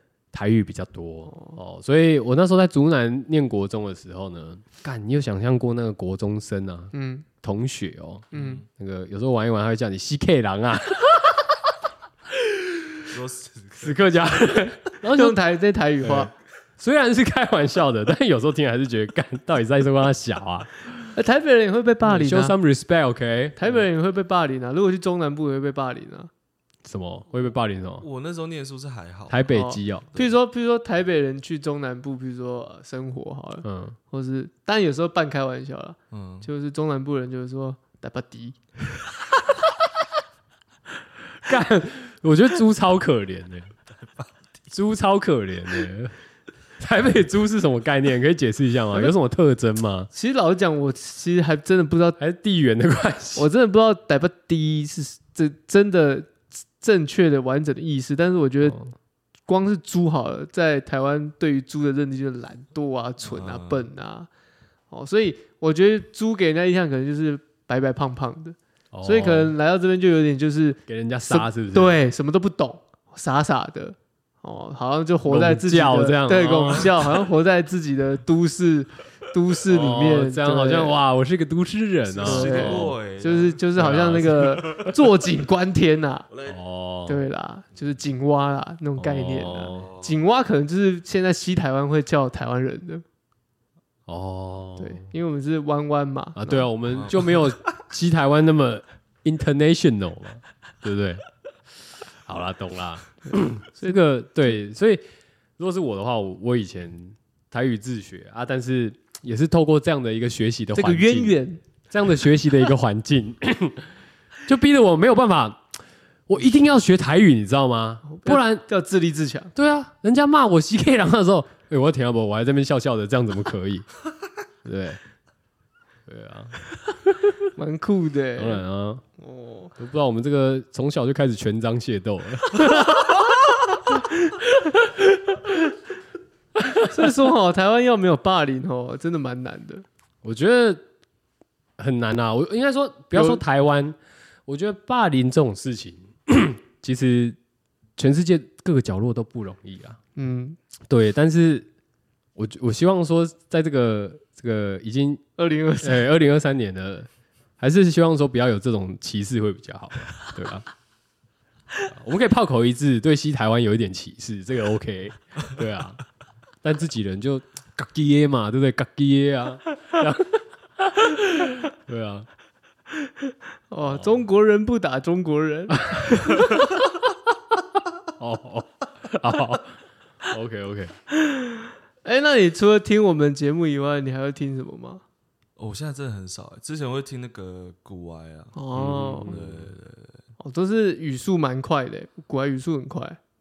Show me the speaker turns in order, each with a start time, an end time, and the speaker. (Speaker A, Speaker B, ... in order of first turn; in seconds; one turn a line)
Speaker A: 0.3-11.6
Speaker B: 1.3-1.6
Speaker B: 6.9-7.2
Speaker C: 8.3-8.7
Speaker B: 8.3-8.6
Speaker A: 12.4-12.9
Speaker C: 13.1-14.5
Speaker A: 13.8-15.4
Speaker B: 15.1-16.3
Speaker A: 16.0-20.8
Speaker B: 21.1-22.5
Speaker A: 22.0-23.8
Speaker B: 23.6-26.3
Speaker A: 26.8-28.1
Speaker C: 28.0-29.5
Speaker A: 29.3-30.1
Speaker B: 29.5-38.6
Speaker A: 33.6-34.0
Speaker C: 36.1-36.5
Speaker A: 41.4-43.7
Speaker A: 44.7-46.1
Speaker A: 46.8-50.1
Speaker B: 50.1-52.2
Speaker A: 52.2-53.5
Speaker B: 53.4-58.8
Speaker A: 58.6-58.9
Speaker B: 59.5-64.3
Speaker C: 63.2-63.9
Speaker B: 64.9-81.0
Speaker A: 68.9-69.5
Speaker A: 70.9-72.0
Speaker A: 75.2-76.9
Speaker A: 79.7-82.9
Speaker C: 82.1-84.9
Speaker B: 82.2-86.2
Speaker A: 83.8-84.5
Speaker C: 86.3-86.6
Speaker A: 86.5-87.2
Speaker B: 87.1-93.0
Speaker A: 89.0-89.9
Speaker C: 89.7-90.2
Speaker A: 94.1-95.1
Speaker B: 94.8-96.7
Speaker A: 96.3-101.2
Speaker C: 96.9-97.5
Speaker A: 102.2-105.0
Speaker B: 103.3-104.0
Speaker A: 105.6-111.3
Speaker B: 110.7-111.6
Speaker A: 111.9-113.9
Speaker A: 114.5-115.7
Speaker A: 116.3-118.6
Speaker B: 118.0-119.5
Speaker A: 119.5-123.9
Speaker A: 124.6-125.0
Speaker A: 126.1-126.6
Speaker B: 127.5-128.6
Speaker A: 128.4-129.0
Speaker B: 129.2-129.7
Speaker A: 129.8-133.1
Speaker B: 136.7-139.8
Speaker A: 140.2-140.8
Speaker A: 141.8-147.4
Speaker B: 143.1-143.4
Speaker A: 148.0-150.0
Speaker B: 150.2-150.6
Speaker A: 150.9-151.7
Speaker A: 152.3-155.2
Speaker B: 155.4-156.1
Speaker A: 155.8-160.7
Speaker A: 161.9-166.0
Speaker A: 166.6-172.3
Speaker B: 173.7-176.6
Speaker A: 178.2-180.9
Speaker B: 181.2-185.0
Speaker C: 185.6-190.2
Speaker B: 188.5-189.3
Speaker A: 188.8-189.7
Speaker B: 190.4-193.2